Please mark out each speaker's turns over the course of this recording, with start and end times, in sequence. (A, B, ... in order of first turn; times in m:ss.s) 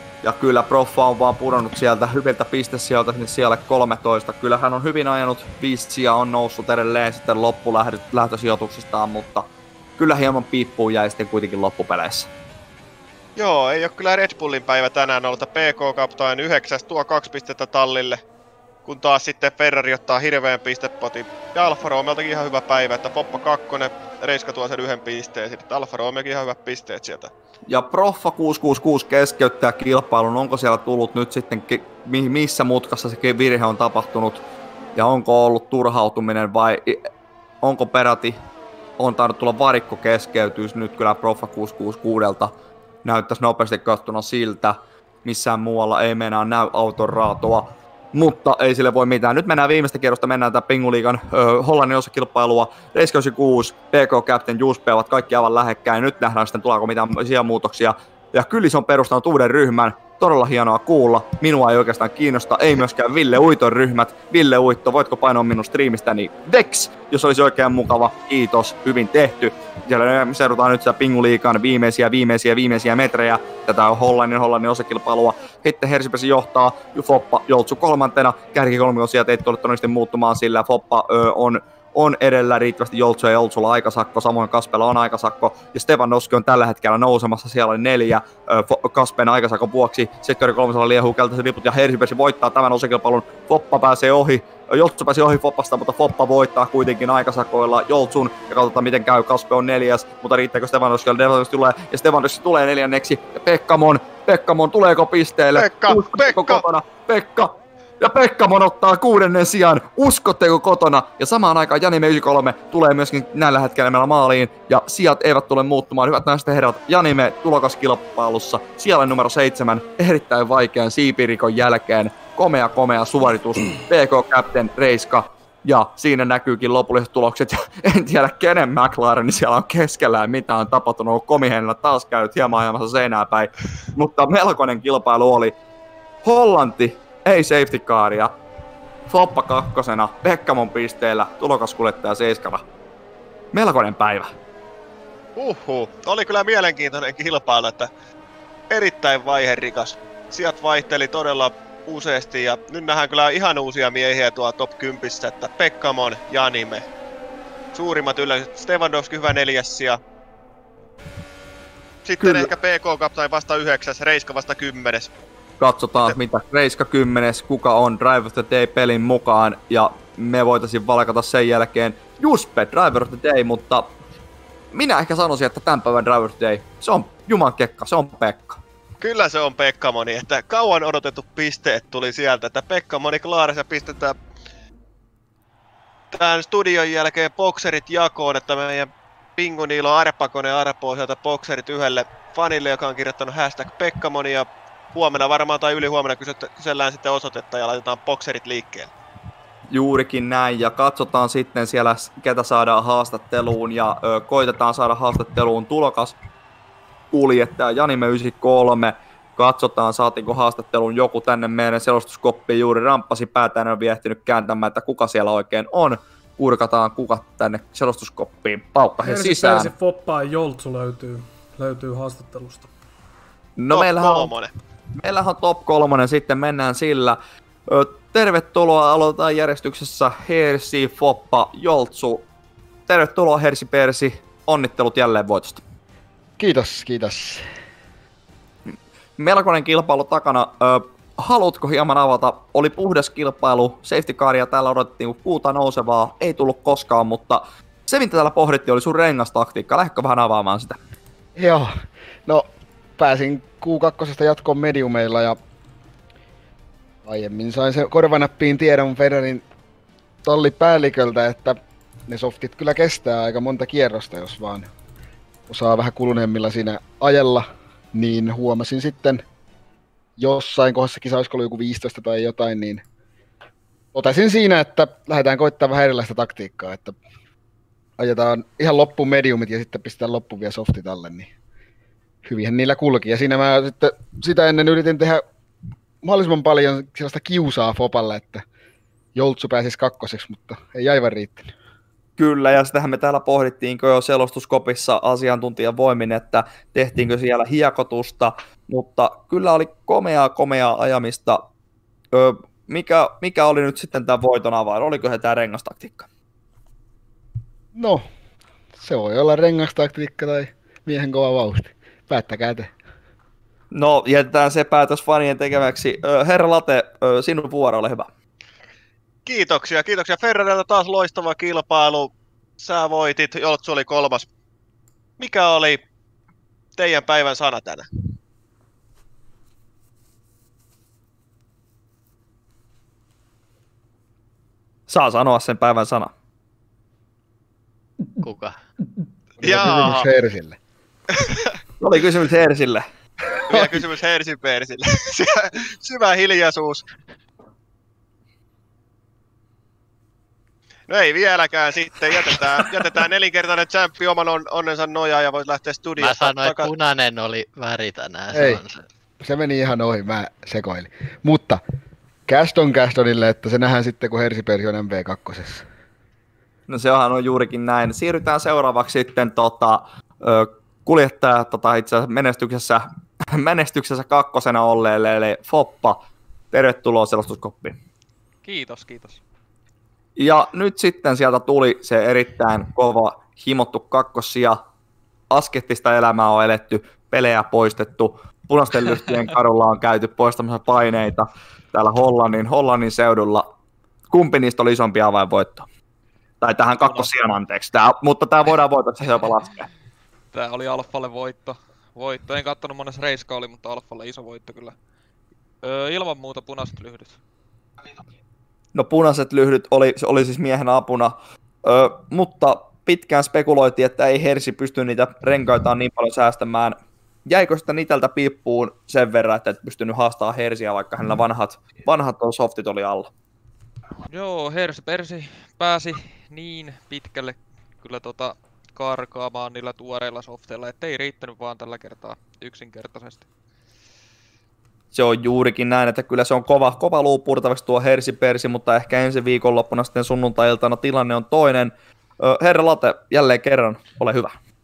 0:00.2-0:09.5 A
0:10.0-0:12.3 A
0:13.4-0:18.2 B
0:18.8-0:27.3 B
0:27.7-0:34.4 A
0:35.0-0:37.0 A
0:37.6-0:38.4 A
0:39.0-0:42.5 A
0:43.0-2:15.6 A
1:45.6-1:46.6 B
2:16.2-2:18.3 A
2:19.1-2:22.6 A
2:23.5-2:24.3 A
2:25.4-2:27.9 B
2:28.7-2:36.9 B
2:37.7-2:40.0 B
2:42.0-2:45.1 B
2:42.2-2:42.5 A
2:45.6-2:53.9 A
2:54.7-2:58.6 A
2:59.0-3:04.2 B
3:06.1-3:18.9 B
3:19.7-3:26.2 A
3:27.1-3:39.7 A
3:39.0-3:42.7 C
3:43.6-3:44.3 A
3:43.7-3:44.5 B
3:45.0-3:52.2 A
3:52.9-3:55.6 A
3:56.4-3:57.5 D
3:58.7-4:10.8 A
4:11.4-4:15.4 D
4:17.0-4:19.4 D
4:20.2-4:24.7 D
4:25.5-4:29.2 D
4:30.2-4:32.8 D
4:33.9-4:37.0 D
4:38.0-4:41.3 D
4:42.2-4:45.2 D
4:46.0-4:48.5 D
4:49.2-4:51.5 D
4:52.2-5:01.5 A
5:02.1-5:06.1 A
5:07.8-5:08.0 D
5:08.8-5:12.7 D
5:13.7-5:18.1 A
5:19.3-5:24.3 B
5:25.2-5:25.8 B
5:26.8-5:27.9 B
5:34.9-5:36.1 A
5:38.2-5:38.6 E
5:39.4-5:40.6 D
5:39.4-5:40.1 B
5:41.1-5:41.6 B
5:41.8-5:42.9 A
5:43.5-5:46.8 B
5:50.9-5:56.7 B
5:56.0-5:58.8 E
5:58.3-5:58.6 D
5:59.2-6:01.6 D
6:02.3-6:05.6 D
6:06.7-6:17.8 A
6:18.4-6:19.2 F
6:20.2-6:24.6 A
6:25.3-6:33.5 A
6:34.1-6:35.7 A
6:36.4-6:39.7 A
6:36.9-6:37.1 F
6:40.3-6:44.8 F
6:45.6-6:47.2 F
6:48.7-7:03.1 A
7:04.1-7:13.3 F
7:14.9-7:24.4 A